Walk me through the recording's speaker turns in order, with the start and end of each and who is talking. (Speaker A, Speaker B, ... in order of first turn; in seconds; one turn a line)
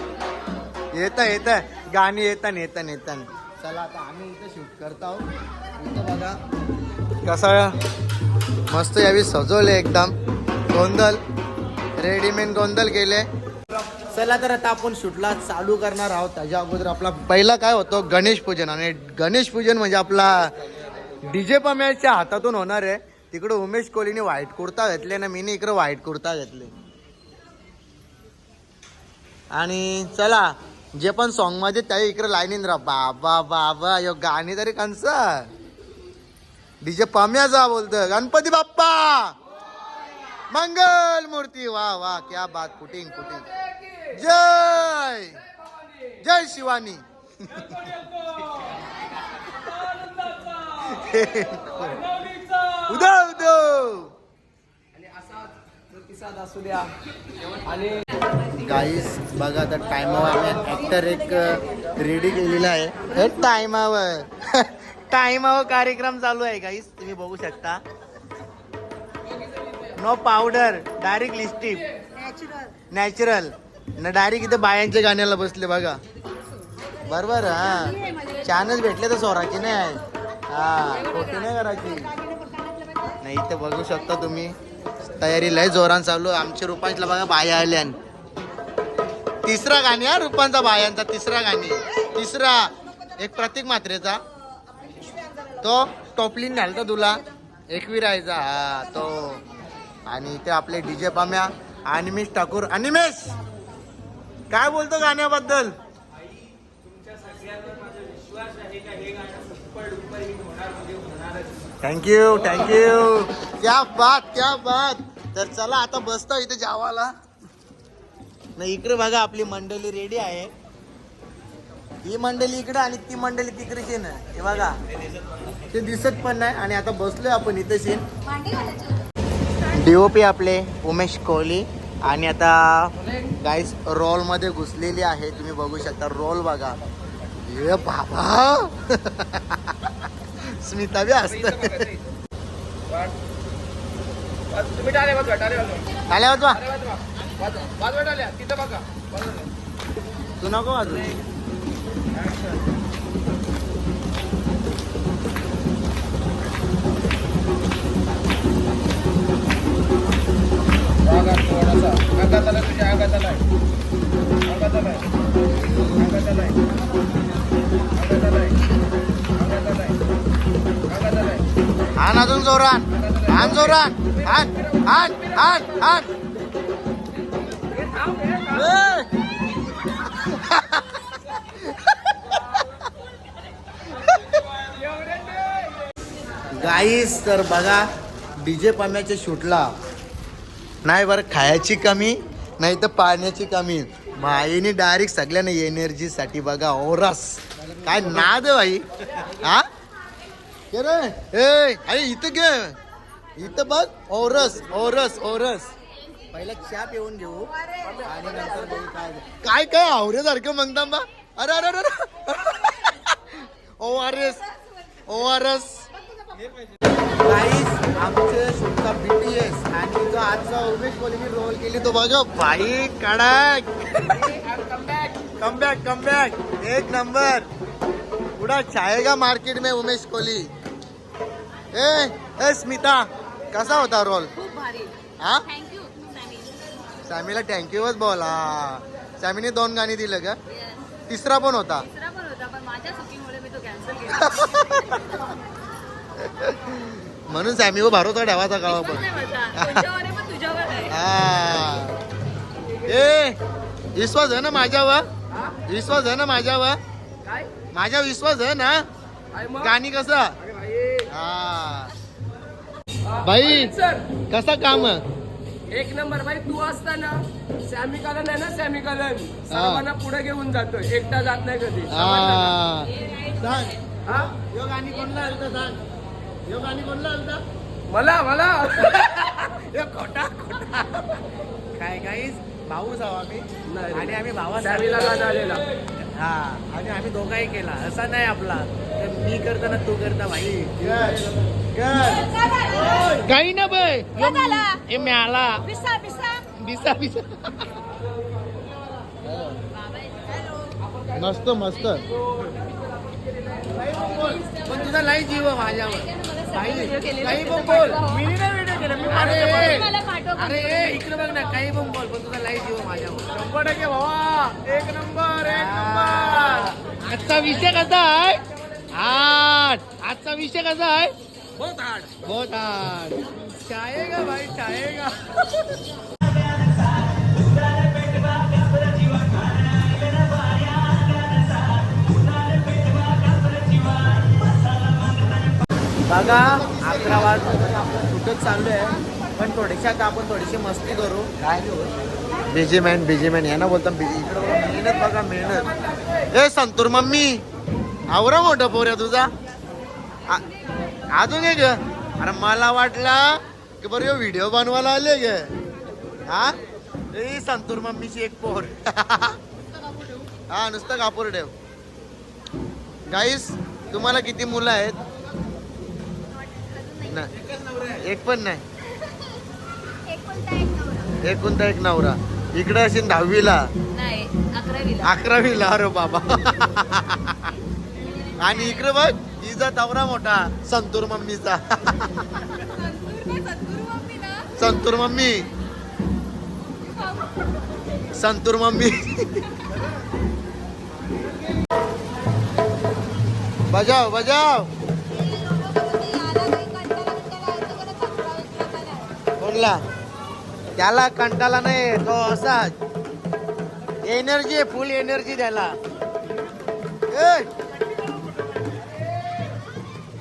Speaker A: 0.9-5.3
Speaker A: 5.8-6.3
Speaker A: 7.2-7.8
Speaker A: 8.7-10.2
Speaker A: 10.7-11.2
Speaker A: 12.0-13.3
Speaker A: 14.1-20.5
Speaker A: 21.2-26.7
Speaker A: 29.5-35.5
Speaker A: 36.8-39.4
Speaker A: 40.5-43.5
Speaker B: 43.7-44.1
Speaker A: 44.1-45.4
Speaker B: 45.7-46.0
Speaker A: 46.2-47.9
Speaker B: 47.8-48.4
Speaker B: 49.9-50.4
Speaker A: 50.8-52.0
Speaker B: 52.1-52.7
Speaker A: 52.8-54.1
Speaker B: 54.9-58.0
Speaker A: 58.6-67.8
Speaker A: 70.0-71.8
Speaker A: 72.9-76.0
Speaker A: 77.0-82.2
Speaker A: 83.2-84.6
Speaker A: 85.2-88.0
Speaker A: 89.4-94.2
Speaker A: 95.6-99.4
Speaker A: 100.1-103.4
Speaker A: 104.5-105.7
Speaker A: 111.8-117.1
Speaker A: 118.6-120.5
Speaker A: 122.0-124.8
Speaker A: 125.7-128.1
Speaker C: 128.3-129.0
Speaker A: 129.7-136.8
Speaker B: 133.0-133.3
Speaker A: 137.4-141.8
Speaker B: 141.3-142.2
Speaker B: 142.9-143.2
Speaker B: 144.5-149.5
Speaker A: 146.1-146.6
Speaker A: 150.4-151.1
Speaker B: 152.1-152.6
Speaker B: 161.0-163.5
Speaker B: 164.4-165.1
Speaker A: 165.6-166.1
Speaker B: 165.8-166.7
Speaker B: 167.9-168.6
Speaker B: 169.3-170.0
Speaker B: 170.9-171.5
Speaker A: 172.0-176.1
Speaker B: 172.9-175.9
Speaker B: 177.4-179.0
Speaker A: 178.5-179.1
Speaker A: 180.0-182.4
Speaker A: 183.9-184.4
Speaker B: 184.5-185.8
Speaker A: 186.5-187.9
Speaker A: 188.4-189.7
Speaker A: 190.8-199.7
Speaker A: 200.7-202.8
Speaker A: 203.4-205.7
Speaker A: 206.3-214.5
Speaker B: 207.8-208.7
Speaker A: 215.1-215.9
Speaker A: 217.2-224.3
Speaker B: 224.1-225.3
Speaker A: 225.4-227.5
Speaker A: 228.4-230.5
Speaker A: 231.7-234.3
Speaker C: 234.4-234.9
Speaker A: 235.2-235.5
Speaker C: 235.5-236.6
Speaker A: 237.1-240.4
Speaker A: 241.1-241.9
Speaker C: 242.0-244.1
Speaker A: 244.0-245.2
Speaker A: 246.2-249.9
Speaker C: 249.2-250.9
Speaker A: 250.8-252.0
Speaker A: 252.8-253.4
Speaker A: 253.9-255.1
Speaker B: 255.3-255.6
Speaker A: 255.7-256.8
Speaker B: 257.2-257.5
Speaker A: 257.7-258.8
Speaker B: 259.3-259.8
Speaker A: 259.6-260.4
Speaker B: 260.4-261.1
Speaker A: 261.1-261.9
Speaker B: 263.0-264.1
Speaker A: 263.2-263.7
Speaker A: 264.3-265.0
Speaker B: 265.7-272.4
Speaker A: 269.5-269.9
Speaker A: 271.9-275.8
Speaker B: 274.1-274.3
Speaker A: 276.5-277.4
Speaker B: 277.9-279.2
Speaker A: 278.8-285.3
Speaker B: 283.7-285.6
Speaker A: 286.2-295.7
Speaker C: 292.5-292.9
Speaker C: 295.8-296.4
Speaker A: 296.3-297.7
Speaker A: 299.2-299.6
Speaker A: 301.1-302.1
Speaker B: 302.4-303.9
Speaker A: 303.9-318.4
Speaker C: 306.9-308.2
Speaker C: 309.6-310.5
Speaker B: 314.5-315.4
Speaker A: 318.9-325.5
Speaker A: 336.1-341.8
Speaker A: 342.5-345.8
Speaker A: 346.3-347.4
Speaker A: 348.1-349.3
Speaker A: 350.3-350.5
Speaker A: 351.1-355.4
Speaker A: 356.3-356.6
Speaker A: 357.1-359.4
Speaker A: 360.5-361.5
Speaker A: 363.1-365.0
Speaker C: 366.5-367.0
Speaker A: 367.0-368.6
Speaker C: 369.9-371.1
Speaker A: 371.2-373.7
Speaker C: 373.9-375.0
Speaker A: 375.0-377.6
Speaker A: 378.4-382.6
Speaker C: 382.7-384.5
Speaker A: 384.6-385.5
Speaker C: 386.9-387.5
Speaker A: 388.1-389.7
Speaker A: 393.7-394.7
Speaker C: 395.1-399.1
Speaker A: 399.4-399.8
Speaker A: 400.8-402.7
Speaker A: 404.0-405.8
Speaker A: 407.1-407.5